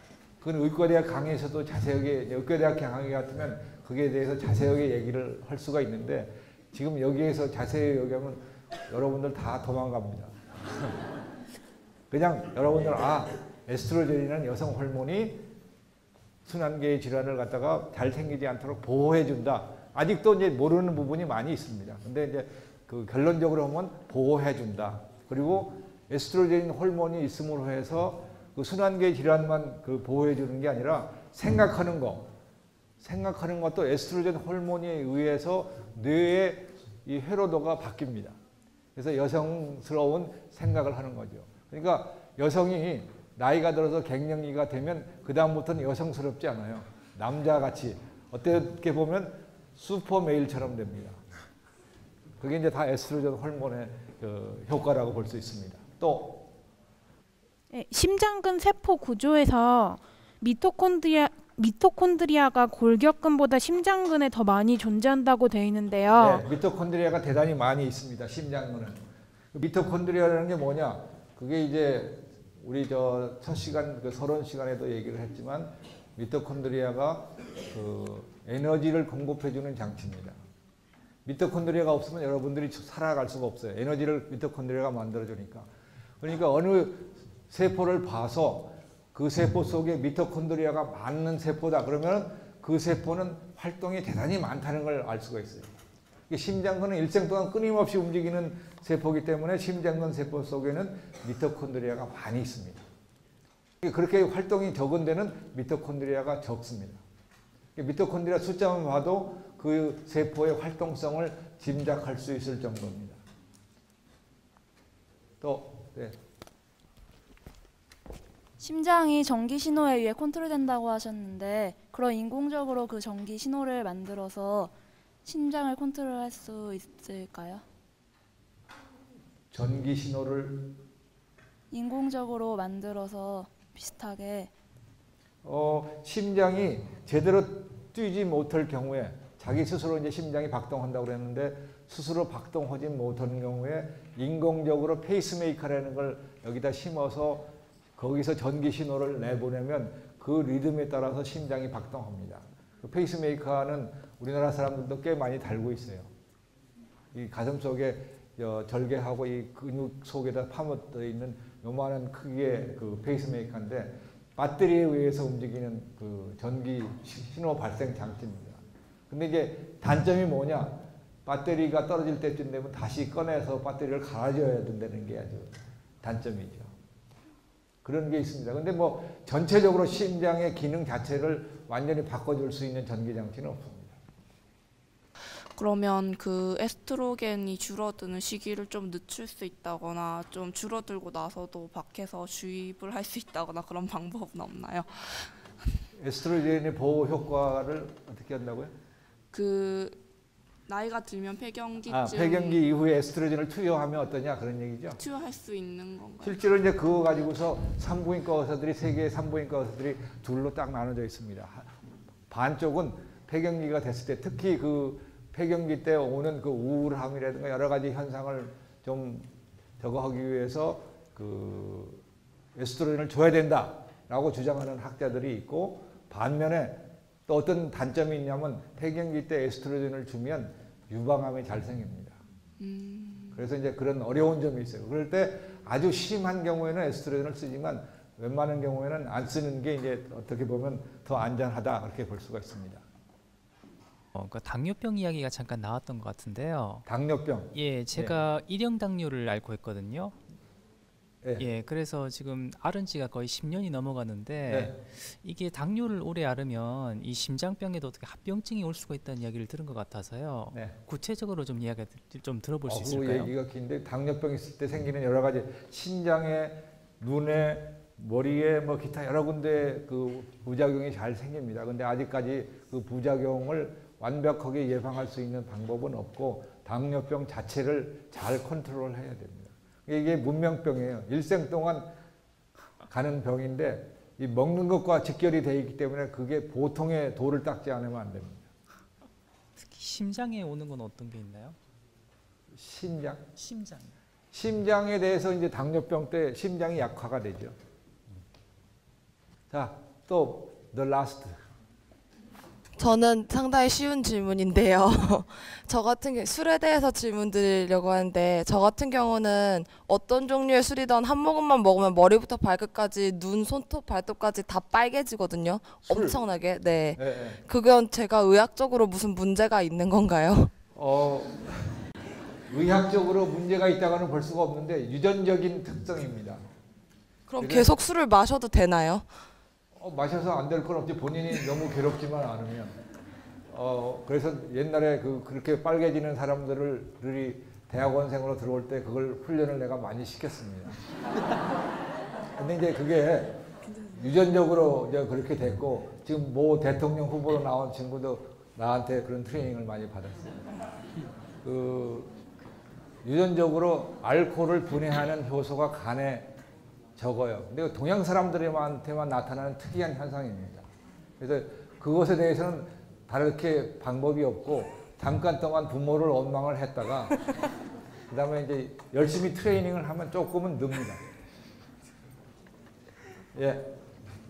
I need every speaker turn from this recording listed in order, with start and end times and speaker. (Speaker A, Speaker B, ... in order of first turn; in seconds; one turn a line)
Speaker A: 0.4-10.3
Speaker A: 12.1-15.4
Speaker A: 16.5-32.3
Speaker A: 33.0-38.4
Speaker A: 39.0-51.2
Speaker A: 52.4-56.5
Speaker B: 57.7-66.4
Speaker A: 66.1-69.0
Speaker A: 69.5-80.4
Speaker A: 81.2-85.7
Speaker A: 86.2-95.7
Speaker A: 96.3-102.8
Speaker A: 103.8-107.0
Speaker A: 107.8-113.2
Speaker A: 115.4-116.2
Speaker C: 118.6-124.7
Speaker C: 125.2-127.6
Speaker A: 129.5-130.7
Speaker C: 131.7-134.5
Speaker A: 135.4-156.1
Speaker A: 157.1-168.6
Speaker A: 169.1-175.5
Speaker A: 176.0-176.7
Speaker A: 177.8-183.9
Speaker D: 185.6-195.4
Speaker A: 196.0-198.7
Speaker D: 199.3-200.0
Speaker D: 200.7-202.7
Speaker A: 201.9-205.0
Speaker D: 204.9-206.4
Speaker A: 206.2-211.7
Speaker A: 212.3-219.3
Speaker A: 219.8-222.0
Speaker A: 222.6-232.2
Speaker D: 232.6-233.4
Speaker A: 233.3-242.8
Speaker E: 244.1-246.8
Speaker A: 246.9-248.2
Speaker E: 247.5-250.1
Speaker E: 251.4-263.3
Speaker A: 254.5-254.7
Speaker A: 262.7-281.9
Speaker A: 282.9-288.4
Speaker E: 289.6-291.6
Speaker A: 292.6-293.2
Speaker E: 293.4-293.9
Speaker A: 294.3-297.6
Speaker A: 299.5-301.4
Speaker F: 302.8-320.5
Speaker A: 315.9-316.2
Speaker A: 316.9-317.4
Speaker A: 320.7-321.8
Speaker A: 322.5-326.4
Speaker F: 327.3-329.1
Speaker A: 327.4-327.7
Speaker A: 329.8-332.7
Speaker A: 333.5-340.8
Speaker A: 342.4-350.5
Speaker A: 351.4-352.1
Speaker A: 353.0-356.3
Speaker A: 357.0-360.6
Speaker A: 361.2-367.2
Speaker A: 368.1-371.0
Speaker A: 373.4-373.7